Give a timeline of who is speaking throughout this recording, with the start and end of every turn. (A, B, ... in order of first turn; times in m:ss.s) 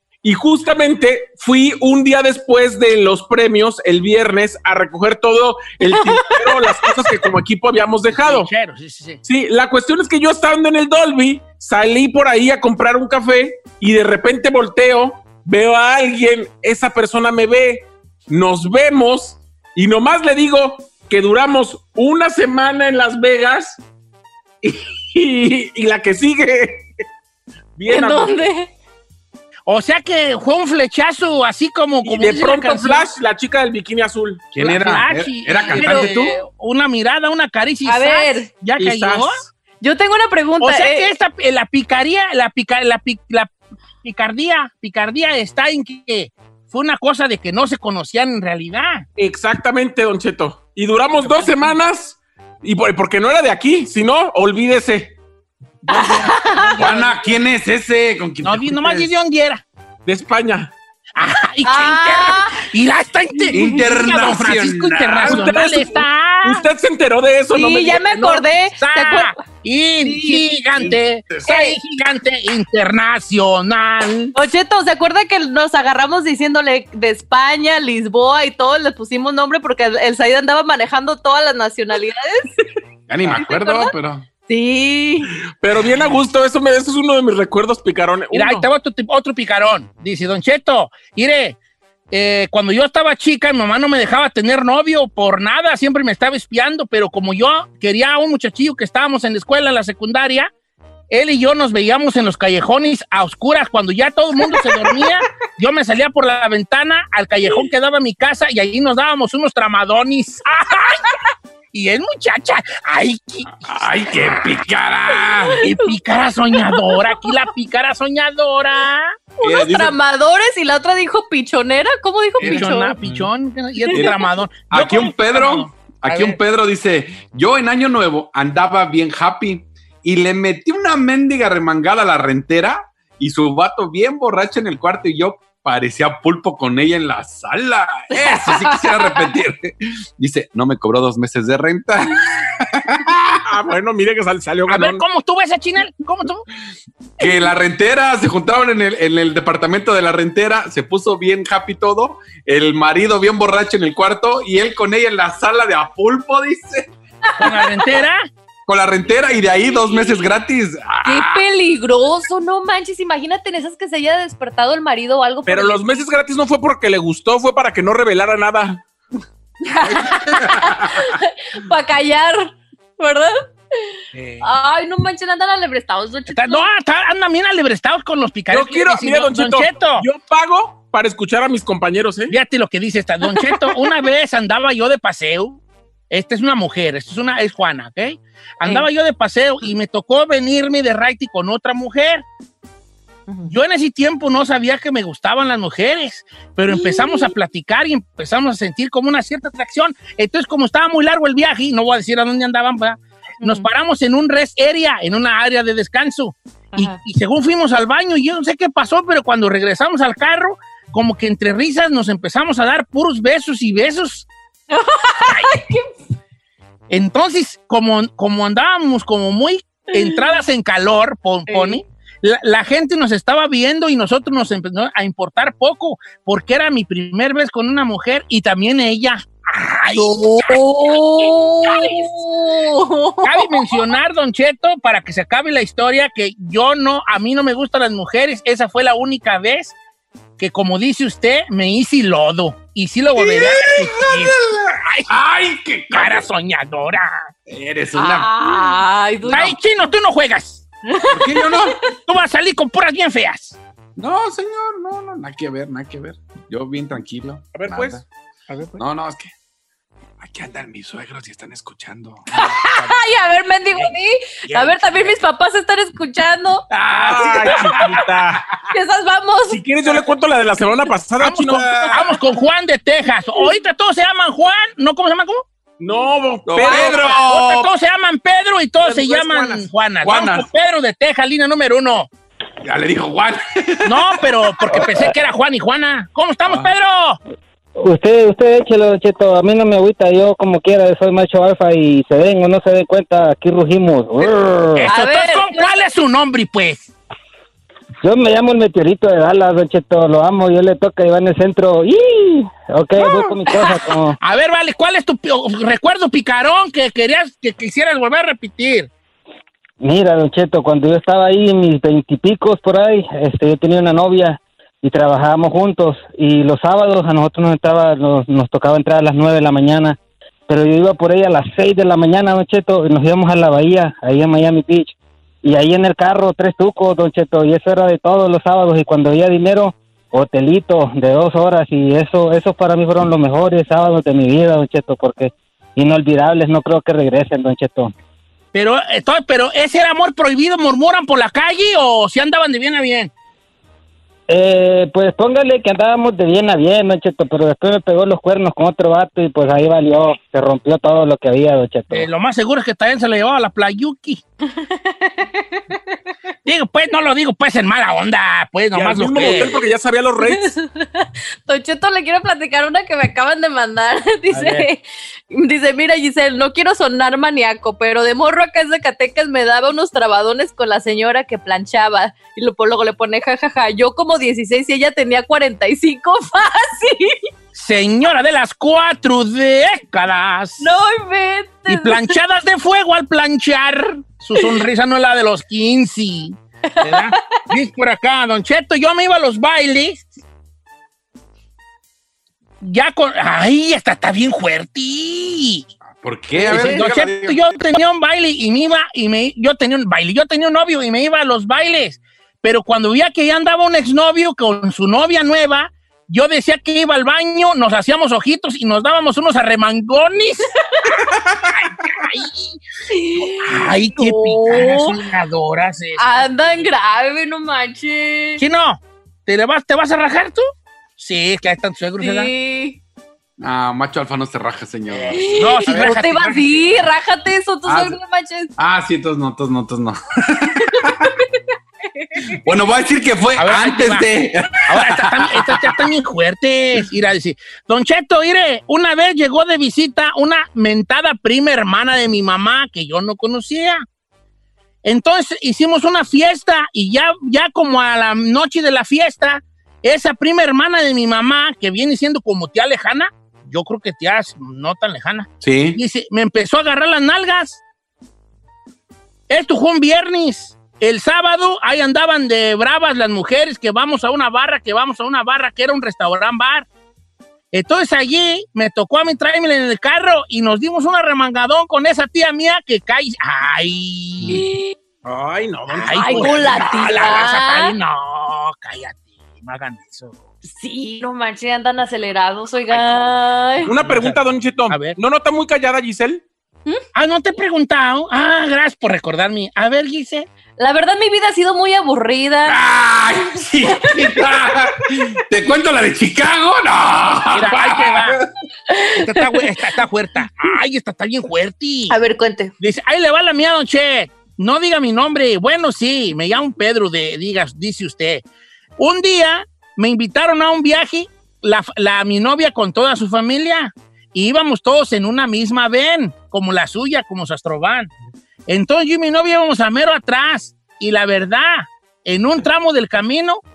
0:00.2-0:08.5 A
0:05.8-0:06.9 B
0:08.2-0:09.2 C
0:09.2-0:23.8 A
0:24.6-0:26.9 A
0:27.8-0:28.4 A
0:27.9-0:28.7 B
0:29.7-0:33.1 C
0:32.0-0:34.5 A
0:34.5-0:36.4 D
0:34.6-0:39.4 C
0:35.7-0:36.2 B
0:37.9-0:38.5 B
0:38.8-0:39.4 A
0:39.8-0:41.1 B
0:40.6-0:43.5 C
0:44.0-0:49.0 C
0:49.2-0:55.2 A
0:51.2-0:51.8 C
0:55.9-0:57.0 B
0:55.9-0:57.4 C
0:56.8-0:59.1 D
0:58.4-0:59.6 C
1:00.1-1:00.7 A
1:01.2-1:06.6 C
1:01.6-1:02.7 B
1:03.5-1:03.8 B
1:03.5-1:05.4 D
1:05.2-1:08.1 A
1:07.5-1:09.4 B
1:08.1-1:14.4 C
1:10.0-1:10.4 B
1:10.9-1:11.5 D
1:11.5-1:11.8 B
1:14.4-1:22.5 B
1:23.1-1:24.3 D
1:23.3-1:25.3 B
1:25.6-1:28.7 A
1:28.3-1:31.6 C
1:32.1-1:40.5 C
1:41.1-1:51.0 C
1:51.7-1:54.6 C
1:53.6-1:55.6 D
1:55.5-1:55.9 B
1:55.6-1:59.2 C
1:56.5-1:57.3 B
1:59.4-2:03.0 B
1:59.4-2:00.0 D
2:02.4-2:03.3 D
2:02.4-2:06.4 C
2:03.9-2:04.2 B
2:03.9-2:23.4 D
2:18.1-2:19.2 B
2:23.5-2:25.0 A
2:24.7-2:26.4 C
2:27.2-2:36.9 D
2:37.4-2:38.3 C
2:37.4-2:37.9 B
2:38.7-2:41.4 D
2:39.6-2:40.4 B
2:41.0-2:45.9 B
2:45.5-2:48.8 A
2:49.8-2:53.3 B
2:49.9-2:50.9 D
2:54.1-2:54.5 C
2:54.4-2:56.6 B
2:56.3-3:00.1 C
2:58.5-3:02.3 A
3:02.3-3:12.2 C
3:03.3-3:03.9 B
3:13.3-3:13.6 B
3:13.4-3:34.3 C
3:16.7-3:17.3 B
3:23.4-3:23.7 B
3:26.7-3:27.0 B
3:34.7-3:35.9 B
3:36.9-3:52.1 C
3:39.9-3:40.4 B
3:41.5-3:41.8 B
3:49.9-3:53.8 B
3:53.2-3:59.8 C
4:00.4-4:05.1 C
4:03.2-4:06.3 D
4:05.9-4:07.3 C
4:07.5-4:08.6 D
4:08.0-4:09.6 B
4:09.3-4:10.6 C
4:10.9-4:11.7 B
4:11.1-4:11.8 D
4:12.0-4:13.6 C
4:14.0-4:18.0 D
4:17.5-4:18.0 A
4:18.5-4:18.8 C
4:18.8-4:19.3 D
4:20.2-4:22.2 D
4:22.4-4:26.6 B
4:24.5-4:25.2 C
4:26.7-4:28.0 D
4:26.9-4:28.0 C
4:26.9-4:28.4 A
4:28.7-4:29.6 B
4:29.5-4:31.9 A
4:31.2-4:35.4 C
4:31.5-4:32.0 D
4:35.8-4:37.0 A
4:36.5-4:37.7 D
4:36.6-4:37.2 B
4:36.7-4:42.1 C
4:38.8-4:39.5 A
4:40.0-4:40.5 D
4:42.6-4:45.1 D
4:43.8-4:47.2 C
4:47.8-4:54.8 E
4:54.8-4:56.9 C
4:54.8-4:55.7 B
4:58.0-5:04.2 E
5:03.0-5:03.8 B
5:04.2-5:08.9 C
5:09.8-5:37.9 E
5:38.5-5:43.1 C
5:44.3-5:52.1 E
5:51.9-5:54.2 C
5:54.8-5:55.2 B
5:56.4-5:59.6 C
5:58.7-6:00.5 A
6:00.2-6:17.2 B
6:04.3-6:04.7 C
6:17.6-6:20.8 C
6:20.6-6:22.1 B
6:21.7-6:30.1 C
6:26.7-6:27.2 B
6:32.6-6:35.7 C
6:35.9-6:37.5 D
6:36.4-6:50.5 C
6:51.5-6:52.6 C
6:52.9-6:55.0 B
6:53.4-6:56.3 C
6:56.0-6:58.4 B
6:58.4-7:00.4 C
7:01.0-7:02.3 C
7:02.0-7:02.8 B
7:03.4-7:05.9 D
7:05.1-7:08.5 B
7:05.3-7:06.7 C
7:07.7-7:08.0 D
7:08.6-7:11.0 D
7:12.4-7:15.7 D
7:13.4-7:14.1 C
7:14.7-7:23.8 C
7:24.8-7:37.6 C
7:35.4-7:35.8 D
7:39.3-7:46.7 C
7:47.5-7:54.4 C
7:54.3-7:54.8 B
7:55.0-7:56.8 A
7:55.7-8:00.2 C
7:55.8-7:57.8 B
8:00.4-8:03.7 B
8:02.7-8:05.0 C
8:03.6-8:06.2 A
8:06.9-8:10.3 C
8:10.6-8:12.6 B
8:12.4-8:18.3 D
8:13.7-8:14.2 B
8:17.3-8:18.2 C
8:18.7-8:19.4 B
8:19.0-8:22.0 C
8:21.9-8:22.5 B
8:22.6-8:28.2 C
8:28.8-8:37.9 C
8:38.5-8:43.4 C